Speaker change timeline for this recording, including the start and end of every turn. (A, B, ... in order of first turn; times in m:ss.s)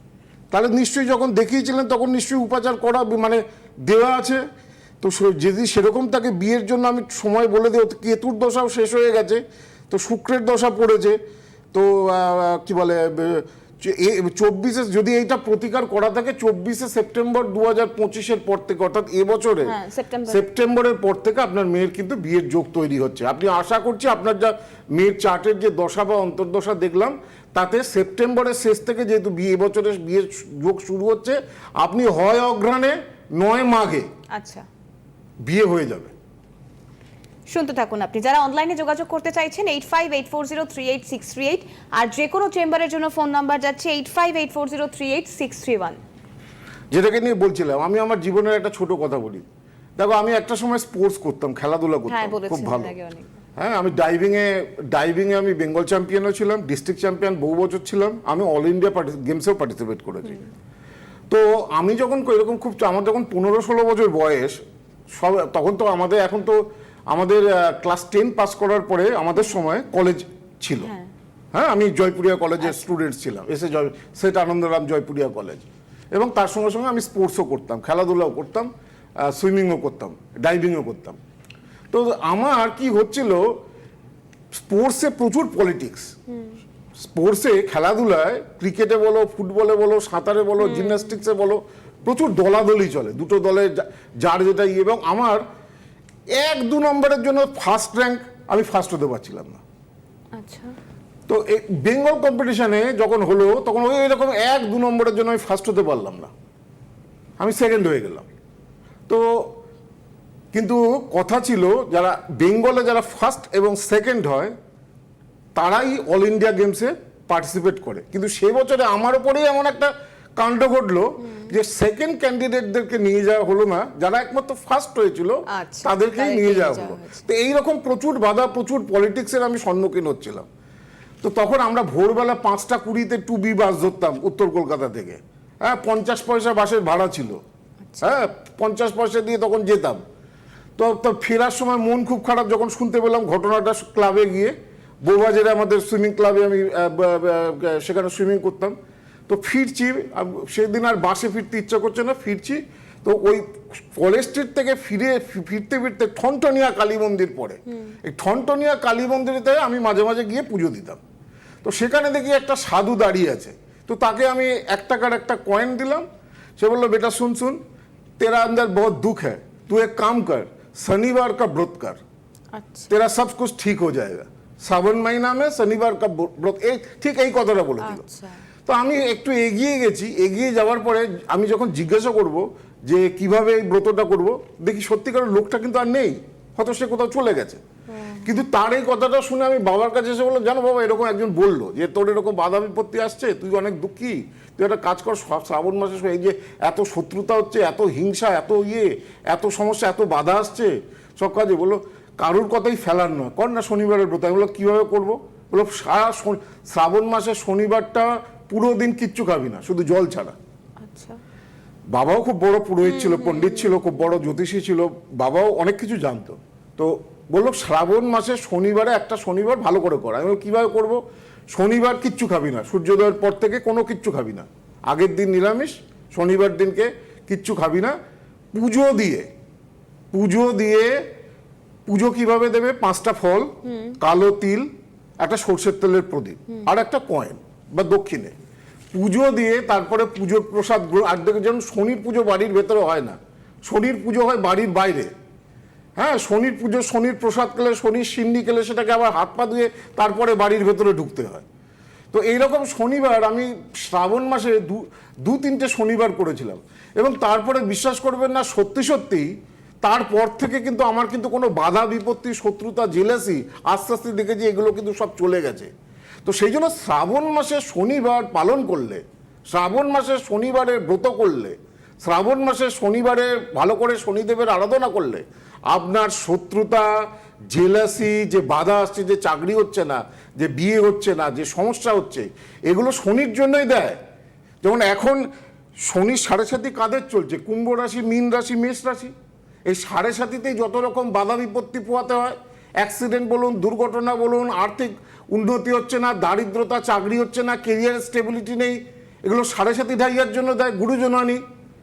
0:00.5-0:04.4 A
0:05.0-0:11.2 A
0:11.7-0:19.7 A
0:19.6-0:20.4 B
0:20.3-0:34.1 A
0:34.3-0:34.6 B
0:35.4-0:36.1 A
0:37.5-0:46.0 B
0:46.9-0:49.4 A
0:50.0-0:52.9 A
0:52.1-0:53.3 B
0:53.6-1:00.4 A
1:01.3-1:04.6 A
1:05.1-1:10.9 A
1:10.8-1:11.1 B
1:11.5-1:21.2 A
1:21.9-1:23.5 A
1:24.6-1:26.1 A
1:26.3-1:26.5 B
1:27.0-1:35.4 A
1:30.6-1:31.1 B
1:36.3-1:39.6 A
1:40.4-1:40.7 B
1:41.3-1:46.3 A
1:47.4-1:48.2 A
1:49.1-1:49.5 A
1:50.5-1:54.5 A
1:55.6-2:10.5 A
2:01.2-2:01.5 B
2:05.5-2:07.2 B
2:11.2-2:17.4 A
2:17.9-2:18.2 B
2:18.0-2:20.0 A
2:20.8-2:28.8 A
2:29.3-2:41.0 A
2:41.6-2:46.0 A
2:46.6-2:47.6 A
2:48.2-2:52.0 A
2:52.5-2:52.9 B
2:52.9-2:58.0 A
2:57.8-2:58.4 B
2:58.6-3:07.6 A
3:07.9-3:08.3 B
3:08.2-3:30.4 A
3:30.8-3:31.2 B
3:31.9-3:47.9 A
3:32.8-3:33.8 B
3:48.5-3:49.3 A
3:50.1-3:51.0 A
3:51.9-3:54.7 A
3:53.6-3:54.0 B
3:55.2-3:58.3 A
3:58.9-4:05.1 A
4:06.0-4:11.4 A
4:12.1-4:19.3 A
4:19.8-4:25.7 A
4:26.2-4:36.9 A
4:37.5-4:44.0 A
4:44.6-4:45.2 A
4:45.8-4:49.1 A
4:49.7-5:01.4 A